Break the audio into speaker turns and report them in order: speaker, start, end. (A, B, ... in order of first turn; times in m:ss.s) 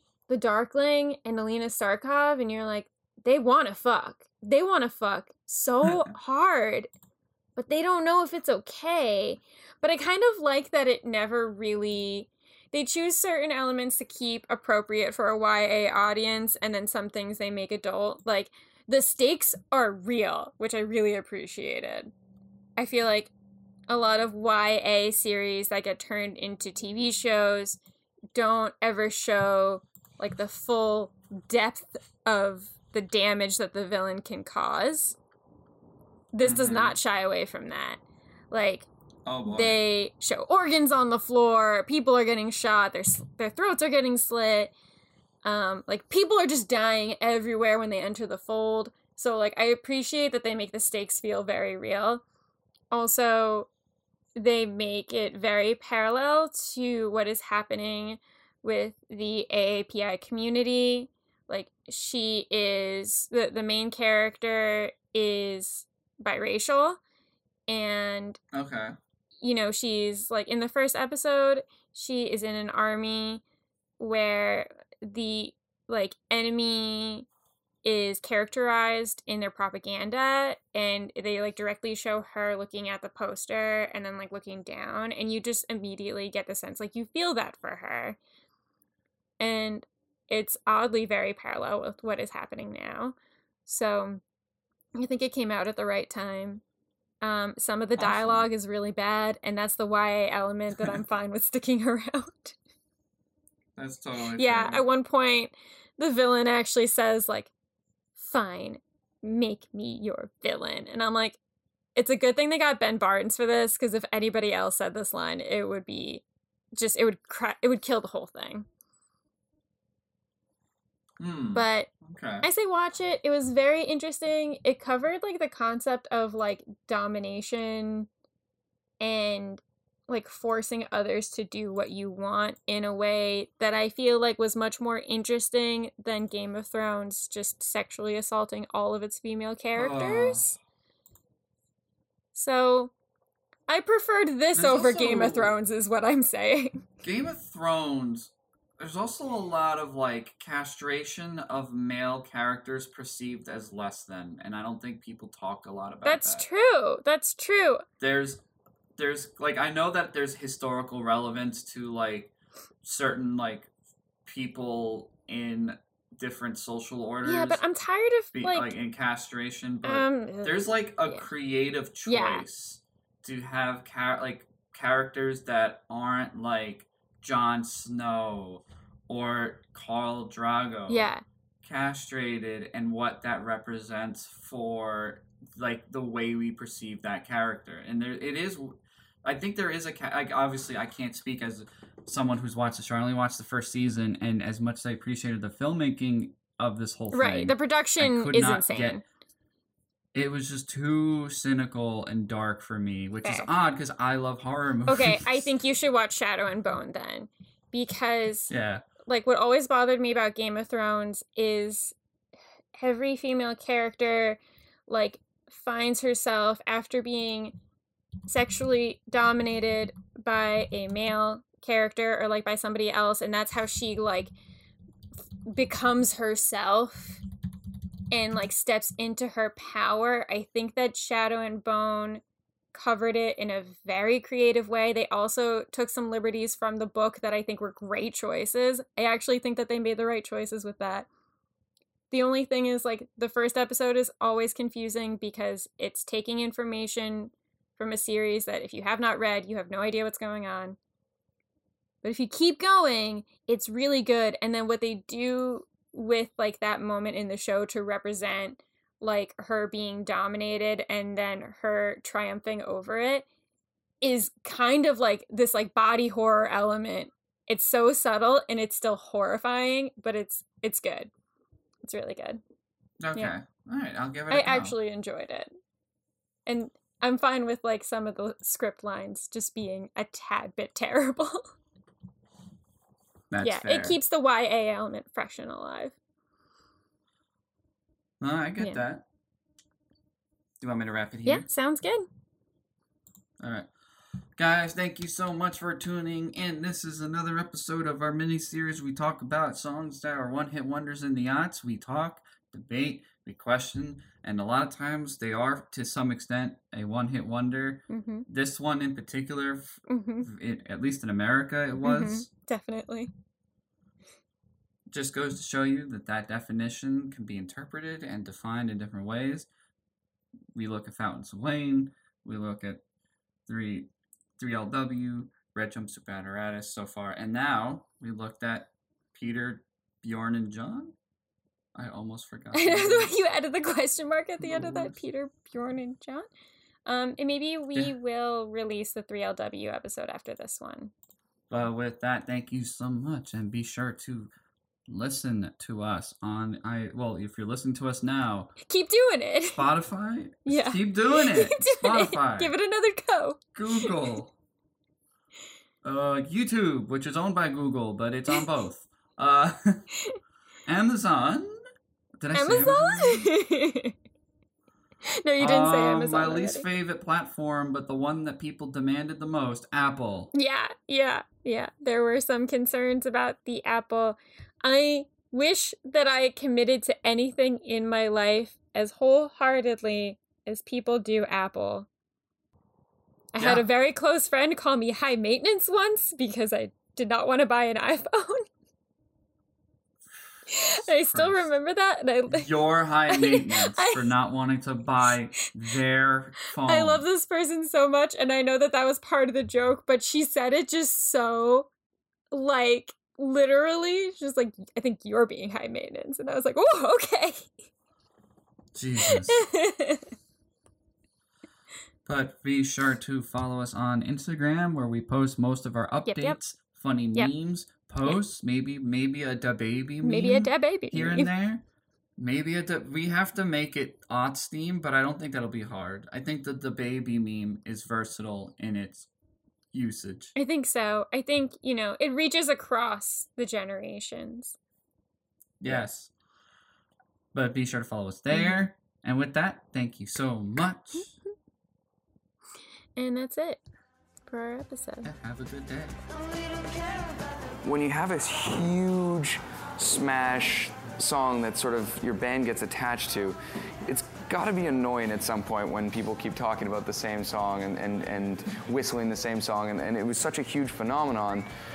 0:00.3-0:06.9 A
0:07.6-0:22.1 A
0:22.8-0:23.3 A
0:23.9-0:27.8 A
0:28.3-0:35.2 A
0:36.3-0:38.9 A
0:36.4-0:37.0 B
0:39.2-0:39.8 B
0:39.5-0:44.7 A
0:45.4-0:52.2 A
0:52.9-0:53.7 A
0:54.4-1:07.0 A
1:07.7-1:08.4 A
1:08.5-1:09.0 B
1:09.4-1:13.4 A
1:14.0-1:17.2 A
1:17.8-1:28.2 A
1:29.4-1:34.2 A
1:34.9-1:36.6 A
1:37.2-1:42.6 A
1:38.0-1:38.5 B
1:43.8-1:44.8 B
1:44.4-1:47.5 A
1:48.2-1:51.4 A
1:52.0-1:58.6 A
2:01.2-2:02.4 B
2:01.5-2:01.9 A
2:02.4-2:08.1 A
2:09.0-2:20.6 A
2:19.7-2:20.5 B
2:22.3-2:22.9 A
2:23.7-2:26.8 A
2:24.5-2:25.5 B
2:27.0-2:36.4 B
2:36.0-2:37.8 A
2:38.0-2:38.4 B
2:39.0-2:42.3 B
2:42.8-2:43.7 B
2:44.2-2:47.6 B
2:47.2-2:48.7 A
2:48.3-3:01.1 B
2:49.8-2:51.2 A
2:52.1-2:52.4 A
3:00.9-3:01.2 A
3:01.6-3:19.0 B
3:17.1-3:19.0 A
3:20.1-3:25.5 B
3:23.2-3:23.5 A
3:24.9-3:28.5 A
3:28.5-3:28.8 B
3:29.0-3:31.9 A
3:32.8-3:37.6 A
3:38.3-3:44.3 A
3:45.5-3:47.2 A
3:48.1-3:52.2 A
3:52.7-4:01.1 A
4:02.1-4:10.8 A
4:12.0-4:23.2 A
4:24.0-4:31.1 A
4:31.8-4:32.4 A
4:33.0-4:34.8 B
4:34.3-4:35.5 A
4:36.5-4:41.5 A
4:43.3-4:44.0 B
4:43.4-4:46.0 A
4:48.2-4:49.0 B
4:50.6-4:51.5 B
4:51.2-4:52.1 A
4:53.4-4:53.7 B
4:54.4-5:12.3 B
5:07.9-5:08.3 A
5:09.9-5:10.3 A
5:11.8-5:13.1 A
5:14.9-5:19.5 B
5:20.5-5:22.8 B
5:23.5-5:31.0 B
5:31.7-5:33.1 B
5:32.5-5:36.3 A
5:34.4-5:35.0 B
5:36.8-5:40.9 A
5:41.5-5:44.3 B
5:44.9-5:48.5 B
5:48.6-5:49.7 A
5:49.5-5:52.5 B
5:50.4-5:54.0 A
5:53.5-5:54.3 B
5:55.8-5:59.9 B
6:00.6-6:01.6 B
6:02.2-6:03.3 B
6:02.3-6:03.9 A
6:05.0-6:06.6 A
6:05.4-6:10.3 B
6:10.3-6:21.9 A
6:23.3-6:28.4 A
6:23.4-6:23.6 B
6:30.5-6:32.4 A
6:30.7-6:31.5 B
6:32.3-6:37.0 B
6:33.1-6:34.1 A
6:36.6-6:41.7 A
6:42.3-6:47.5 A
6:48.7-6:49.4 B
6:49.1-6:50.0 A
6:52.0-7:01.6 B
6:56.0-6:56.4 A
7:00.0-7:01.3 A
7:02.2-7:09.1 B
7:09.7-7:10.3 B
7:10.4-7:14.6 A
7:15.6-7:16.1 B
7:17.3-7:21.2 B
7:18.3-7:18.7 A
7:23.0-7:23.6 A
7:24.3-7:25.1 A
7:25.0-7:26.0 B
7:26.4-7:27.1 C
7:27.6-7:41.4 C